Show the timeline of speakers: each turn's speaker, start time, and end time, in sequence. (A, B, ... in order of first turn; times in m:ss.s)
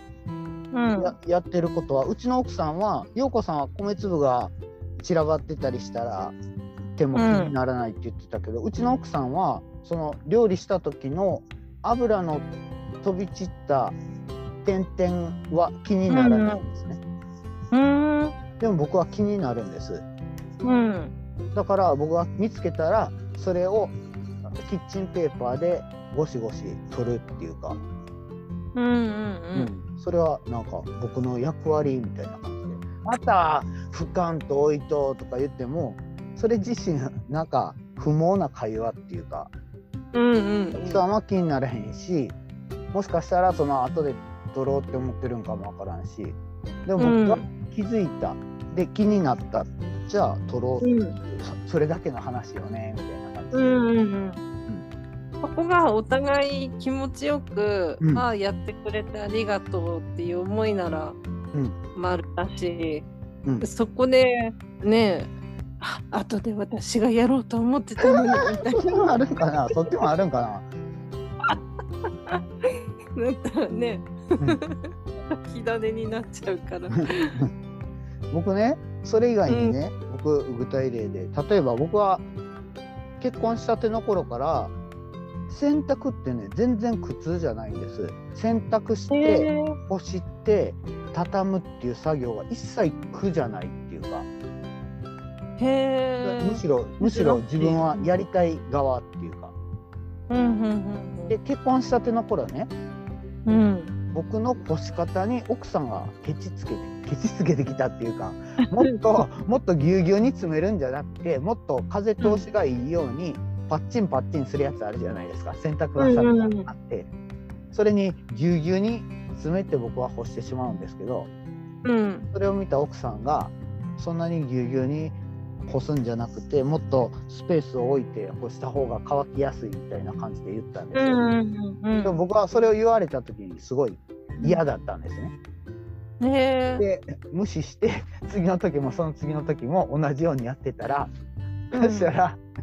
0:00.7-0:01.1 A
0:01.0-0:06.4 B
0:07.0-0:12.5 B
0:07.1-0:07.5 A
0:13.0-0:14.0 B
0:14.6-0:17.0 B
0:16.1-0:16.6 A
0:17.7-0:18.4 A
0:18.6-0:20.0 B
0:20.6-0:21.1 A
0:21.5-0:24.0 B
0:24.5-0:27.8 B
0:28.7-0:29.7 A
0:29.5-0:39.5 B
0:40.1-0:41.0 A
0:40.7-0:42.4 B
0:42.9-0:53.8 B
0:47.0-0:47.4 A
0:50.8-0:51.2 A
0:53.5-0:54.4 A
0:55.4-1:01.2 A
1:01.9-1:03.1 A
1:03.6-1:05.3 A
1:05.8-1:09.1 A
1:08.0-1:10.7 B
1:12.3-1:17.4 A
1:18.3-1:22.2 B
1:19.5-1:19.8 A
1:23.2-1:24.7 B
1:25.5-1:34.3 B
1:29.1-1:29.8 A
1:35.6-1:38.1 A
1:36.2-1:39.5 B
1:40.3-1:41.4 A
1:41.3-1:42.7 B
1:43.4-1:43.9 A
1:44.1-1:57.1 B
1:52.2-1:52.4 A
1:56.0-1:56.7 A
1:57.7-2:01.3 B
2:01.8-2:02.3 A
2:02.3-2:11.3 B
2:10.9-2:12.2 A
2:12.0-2:15.3 B
2:16.2-2:16.8 A
2:16.8-2:21.1 B
2:21.7-2:22.4 B
2:21.7-2:22.1 A